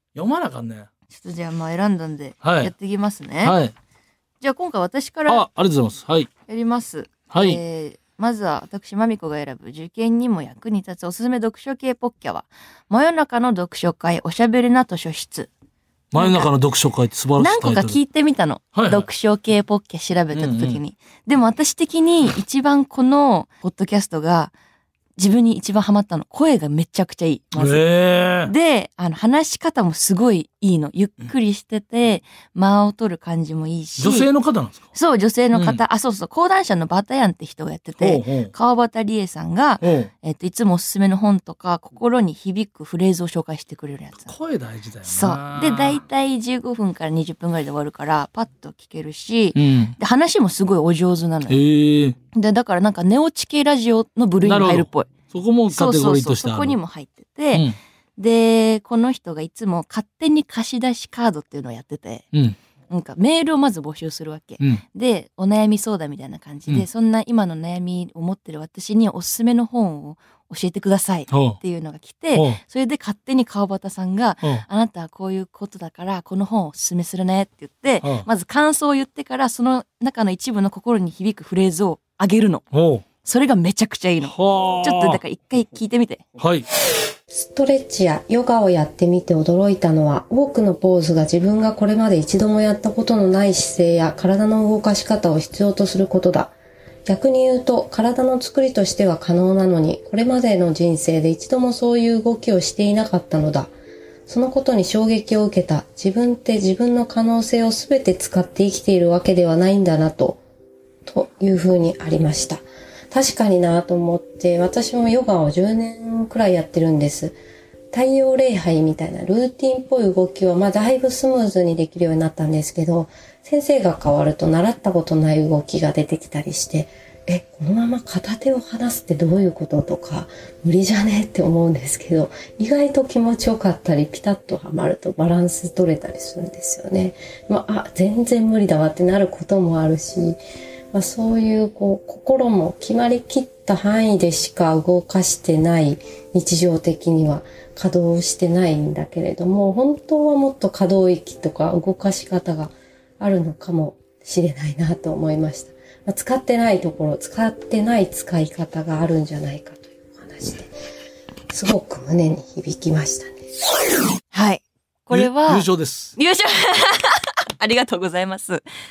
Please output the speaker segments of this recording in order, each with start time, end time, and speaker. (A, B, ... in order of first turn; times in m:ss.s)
0:00.2-0:00.9 A
0:01.1-0:03.6 B
0:02.4-0:02.7 A
0:03.4-0:03.7 A
0:04.4-0:05.4 B
0:05.3-0:06.3 A
0:06.5-0:15.5 B
0:07.3-0:07.6 A
0:16.1-0:18.0 A
0:16.2-0:16.5 B
0:17.4-0:24.5 B
0:18.8-0:19.1 A
0:20.3-0:20.8 A
0:25.2-0:27.8 B
0:27.6-0:28.5 A
0:28.4-0:34.3 B
0:34.0-0:34.9 A
0:34.9-0:44.3 B
0:35.5-0:35.8 A
0:38.0-0:38.5 A
0:39.8-0:40.1 A
0:44.2-0:46.0 A
0:45.0-0:51.6 B
0:49.6-0:50.0 A
0:51.5-0:52.2 A
0:52.3-0:55.1 B
0:54.4-0:56.8 A
0:55.7-1:02.3 B
1:02.9-1:22.7 B
1:11.3-1:11.6 A
1:12.3-1:12.6 A
1:22.7-1:23.0 A
1:23.2-1:26.2 B
1:24.2-1:25.2 A
1:26.4-1:26.7 A
1:27.3-1:36.5 C
1:37.1-1:43.7 C
1:44.3-1:50.4 C
1:51.1-1:57.4 C
1:57.9-2:20.4 C
2:20.9-2:40.7 C
2:41.5-2:43.4 C
2:44.3-2:48.6 B
2:45.1-2:46.1 A